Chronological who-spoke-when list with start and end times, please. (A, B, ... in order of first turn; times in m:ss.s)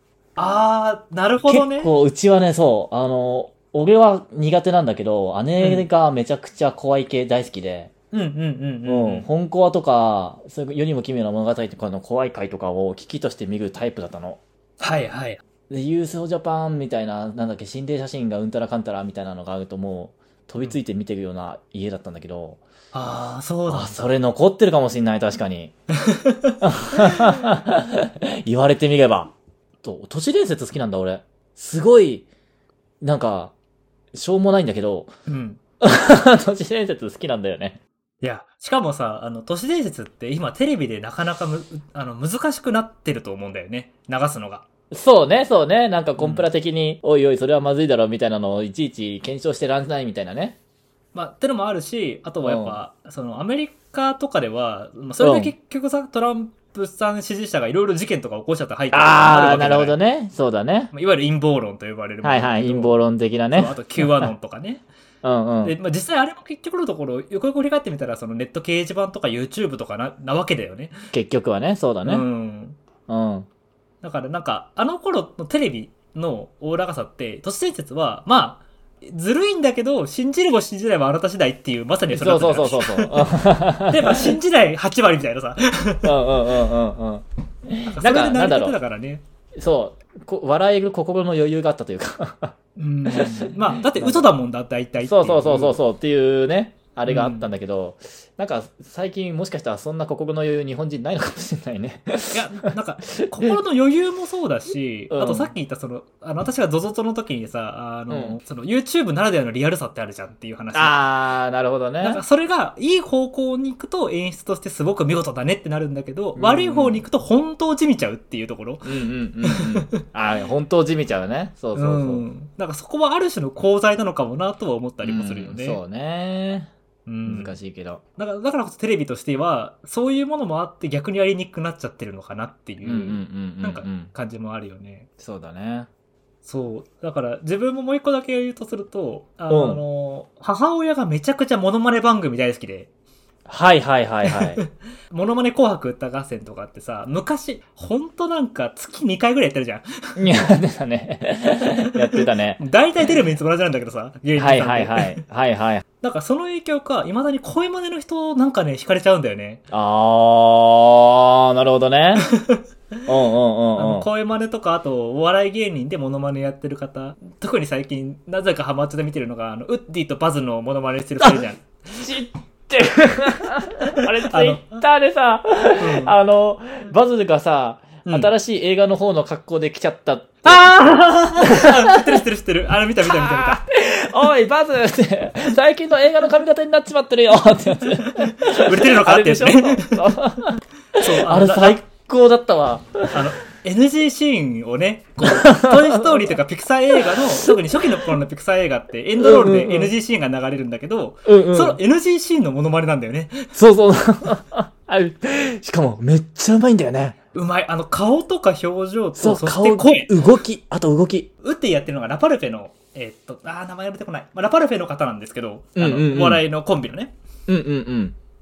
0:00.4-0:01.9 A
0:01.5-0:07.9 B
0:05.6-0:05.9 A
0:08.1-0:09.3 A
0:08.8-0:14.4 B
0:14.8-0:15.4 A
0:15.7-0:22.6 B
0:22.9-0:24.1 A
0:23.7-0:25.7 B
0:26.0-0:27.3 A
0:26.6-0:32.3 B
0:33.0-0:33.5 B
0:34.1-0:35.1 B
0:35.3-0:35.6 A
0:35.8-0:37.8 B
0:38.2-0:44.6 A
0:44.9-0:50.6 B
0:46.2-0:46.4 A
0:51.1-1:00.0 A
0:52.4-0:52.8 B
0:55.2-0:55.5 B
0:58.9-1:00.9 B
1:00.9-1:04.8 A
1:02.2-1:04.3 B
1:05.2-1:05.8 B
1:05.6-1:10.9 A
1:11.1-1:12.2 B
1:12.0-1:12.8 A
1:13.1-1:13.5 B
1:14.0-1:23.3 A
1:22.1-1:24.4 B
1:23.9-1:26.3 A
1:26.0-1:28.8 B
1:27.8-1:29.2 A
1:29.6-1:32.5 B
1:32.8-1:35.8 A
1:33.1-1:34.3 B
1:35.0-1:42.4 B
1:37.1-1:37.5 A
1:42.3-1:51.0 A
1:43.0-1:43.6 B
1:45.1-1:45.5 B
1:48.1-1:48.4 B
1:50.7-1:52.2 B
1:52.0-2:00.0 A
1:56.4-1:57.0 B
1:58.8-2:02.2 B
2:01.7-2:05.8 A
2:05.0-2:06.7 B
2:07.0-2:07.6 A
2:07.2-2:08.0 B
2:08.2-2:15.1 A
2:12.8-2:14.1 B
2:15.2-2:15.9 B
2:16.4-2:22.9 A
2:19.5-2:19.8 B
2:23.5-2:24.6 B
2:24.2-2:30.3 A
2:30.2-2:32.6 B
2:31.9-2:35.2 A
2:34.4-2:35.8 B
2:36.0-2:39.6 A
2:39.7-2:42.3 B
2:42.2-2:43.1 A
2:43.1-2:44.0 B
2:43.8-2:52.2 A
2:51.2-3:02.2 B
2:53.8-2:54.8 A
2:55.8-2:56.2 A
2:58.0-2:58.3 A
3:00.4-3:03.6 A
3:03.0-3:13.2 B
3:08.0-3:10.1 A
3:10.9-3:11.8 A
3:13.1-3:23.6 A
3:15.2-3:16.4 B
3:17.0-3:17.8 B
3:19.2-3:19.9 B
3:21.2-3:21.8 B
3:23.5-3:27.2 B
3:27.3-3:30.2 A
3:29.2-3:31.3 B
3:31.4-3:37.1 A
3:35.8-3:36.4 B
3:37.5-3:38.1 B